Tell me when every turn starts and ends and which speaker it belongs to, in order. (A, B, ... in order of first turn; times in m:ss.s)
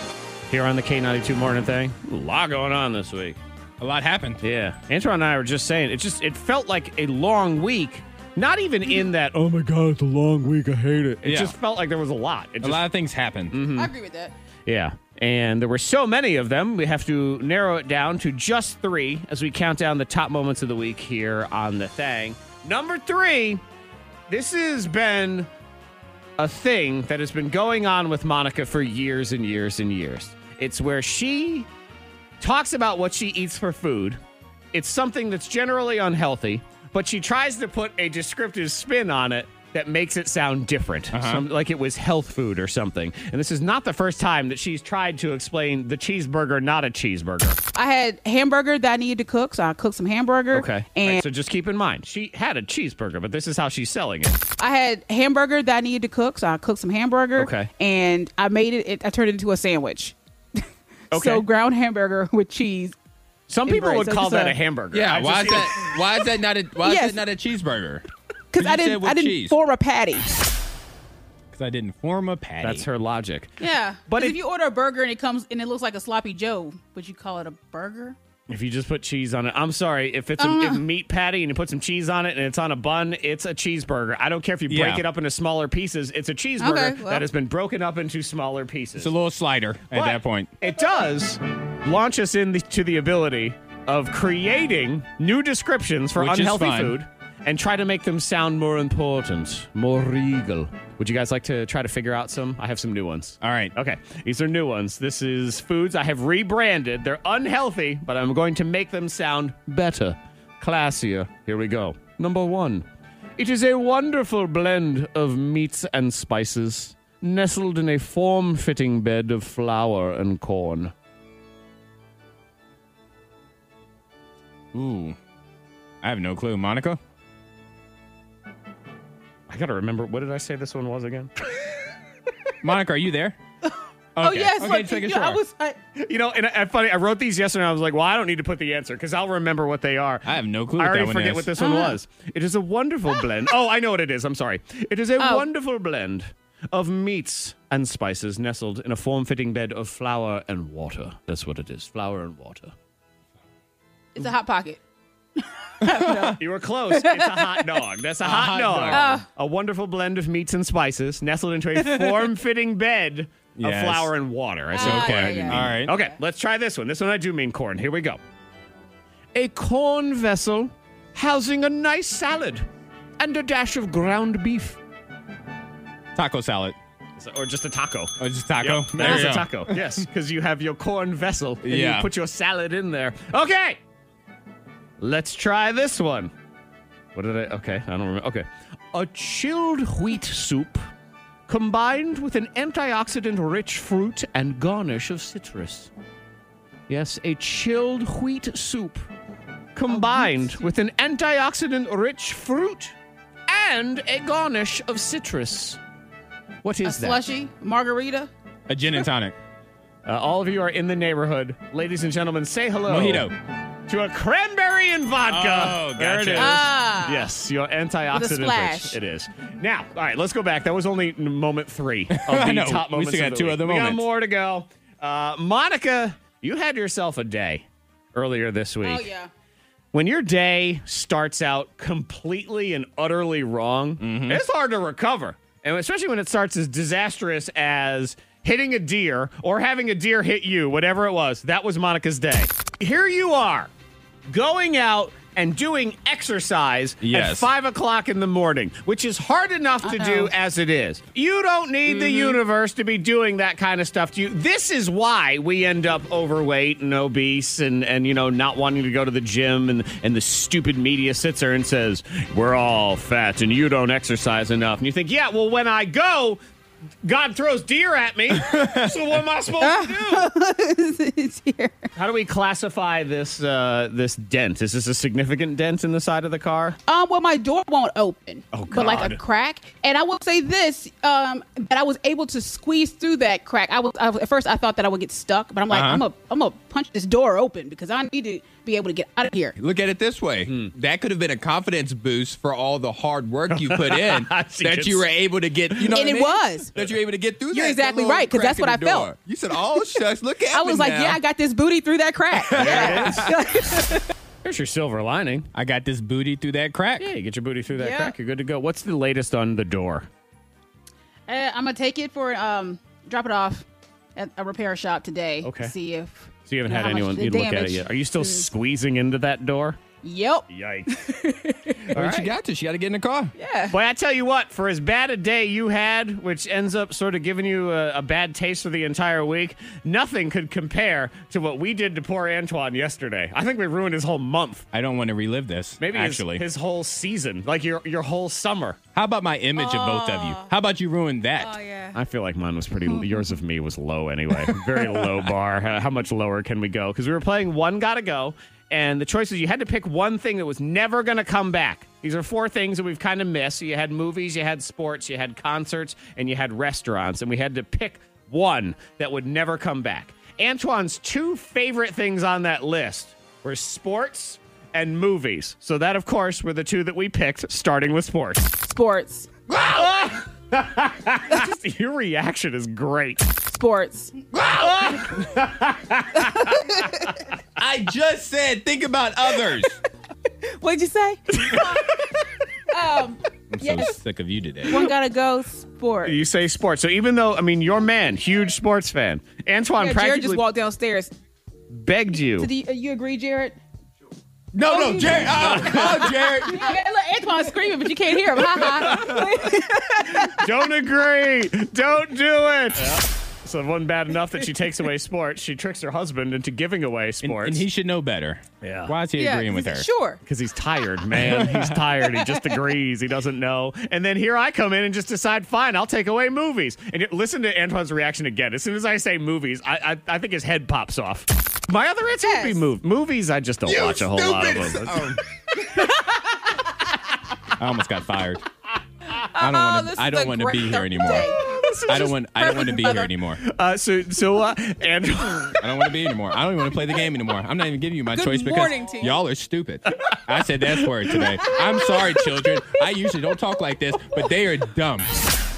0:00.5-0:03.4 A
0:03.8-0:04.4 B
0:04.4-0:12.8 A
0:11.2-0:11.5 B
0:12.6-0:13.6 B
0:13.5-0:13.9 A
0:13.7-0:14.3 C
0:14.6-0:23.6 A
0:24.3-0:25.5 A
0:26.4-0:31.7 A
0:32.4-0:34.2 A
0:34.7-0:47.6 A
0:41.1-0:41.4 B
0:47.7-0:51.2 C
0:50.5-0:54.4 A
0:54.6-1:00.6 C
0:57.4-0:57.7 A
1:01.1-1:01.4 A
1:01.1-1:02.9 C
1:03.5-1:05.9 A
1:03.7-1:04.6 C
1:04.9-1:09.6 B
1:06.8-1:07.2 C
1:08.5-1:10.3 C
1:11.5-1:12.8 B
1:12.6-1:13.5 A
1:13.6-1:18.2 C
1:14.1-1:14.4 A
1:18.5-1:29.1 A
1:20.4-1:20.8 C
1:24.7-1:25.0 B
1:26.6-1:27.3 C
1:29.0-1:30.5 B
1:29.9-1:52.8 A
1:36.2-1:37.0 B
1:43.4-1:43.7 B
1:53.4-2:00.9 A
2:04.7-2:05.2 B
2:06.0-2:07.0 B
2:09.5-2:11.7 A
2:12.6-2:13.4 B
2:14.2-2:15.4 B
2:14.2-2:15.8 C
2:15.9-2:32.7 A
2:20.2-2:21.5 B
2:21.6-2:22.0 C
2:25.2-2:25.5 C
2:34.1-2:34.8 C
2:35.6-2:37.7 C
2:35.8-2:36.3 B
2:36.2-2:48.2 A
2:38.2-2:39.1 B
2:38.9-2:39.2 C
2:43.6-2:44.1 B
2:44.7-2:46.1 C
2:44.7-2:45.9 B
2:49.3-2:52.6 A
2:53.2-2:54.8 A
2:56.2-2:56.8 B
2:57.2-3:03.8 A
2:58.2-2:59.9 B
3:01.6-3:02.1 B
3:05.0-3:06.3 A
3:07.1-3:10.9 A
3:11.5-3:15.9 A
3:16.9-3:19.1 A
3:19.7-3:22.9 A
3:19.9-3:20.6 C
3:23.5-3:25.8 A
3:26.6-3:27.2 A
3:26.8-3:28.3 C
3:28.7-3:29.4 B
3:30.0-3:33.3 A
3:32.9-3:33.3 B
3:33.9-3:49.1 A
3:35.2-3:36.7 B
3:36.4-3:37.3 C
3:38.1-3:39.0 C
3:42.1-3:44.0 B
3:48.8-3:49.3 C
3:49.9-4:03.7 A
3:54.0-3:54.4 B
4:04.3-4:26.4 A
4:07.0-4:07.5 B
4:09.8-4:10.3 C
4:11.9-4:12.4 C
4:27.0-4:30.3 A
4:28.6-4:28.9 B
4:29.6-4:31.9 C
4:31.9-4:36.8 A
4:36.9-4:49.6 C
4:38.5-4:39.2 A
4:45.7-4:46.0 B
4:49.6-5:01.2 B
4:50.4-4:50.7 A
4:53.5-4:55.0 A
4:55.9-4:56.7 C
4:57.5-4:59.1 C
5:00.4-5:04.0 C
5:02.4-5:03.4 B
5:02.5-5:03.4 A
5:04.4-5:05.5 A
5:05.5-5:07.1 B
5:07.0-5:10.1 A
5:07.7-5:08.1 C
5:11.3-5:13.6 C
5:14.2-5:18.5 C
5:15.4-5:15.7 A
5:16.4-5:19.8 A
5:20.0-5:21.9 C
5:20.5-5:20.9 A
5:21.9-5:23.3 B
5:21.9-5:22.3 A
5:23.4-5:23.7 C
5:23.7-5:34.6 A
5:34.7-5:36.4 B
5:35.8-5:38.8 A
5:38.9-5:41.5 B
5:39.5-5:40.5 C
5:41.4-5:42.0 C
5:41.9-6:08.6 A
6:08.6-6:09.3 C
6:09.5-6:13.3 A
6:13.5-6:14.1 C
6:14.3-6:17.1 A
6:16.6-6:17.1 C
6:17.6-6:19.8 B
6:20.4-6:21.9 C
6:21.3-6:22.1 A
6:22.7-6:23.9 C
6:23.5-6:24.9 B
6:24.6-6:26.2 C
6:26.0-6:30.4 A
6:29.8-6:31.1 C
6:31.7-6:32.5 A
6:32.4-6:33.6 C
6:34.5-6:36.7 B
6:34.6-6:40.6 C
6:35.4-6:36.0 A
6:38.6-6:39.3 A
6:40.1-6:47.6 A
6:47.2-6:49.9 B
6:48.6-6:48.9 A
6:49.2-6:50.2 C
6:50.2-7:05.2 A
6:51.1-6:51.8 B
6:51.9-6:52.6 C
7:02.2-7:02.6 C
7:03.6-7:05.2 B
7:05.7-7:06.2 C
7:07.6-7:08.4 B
7:09.2-7:13.1 C
7:09.3-7:11.3 B
7:11.4-7:12.2 A
7:11.9-7:13.4 B
7:13.4-7:15.7 A
7:15.6-7:25.1 B
7:18.1-7:19.2 C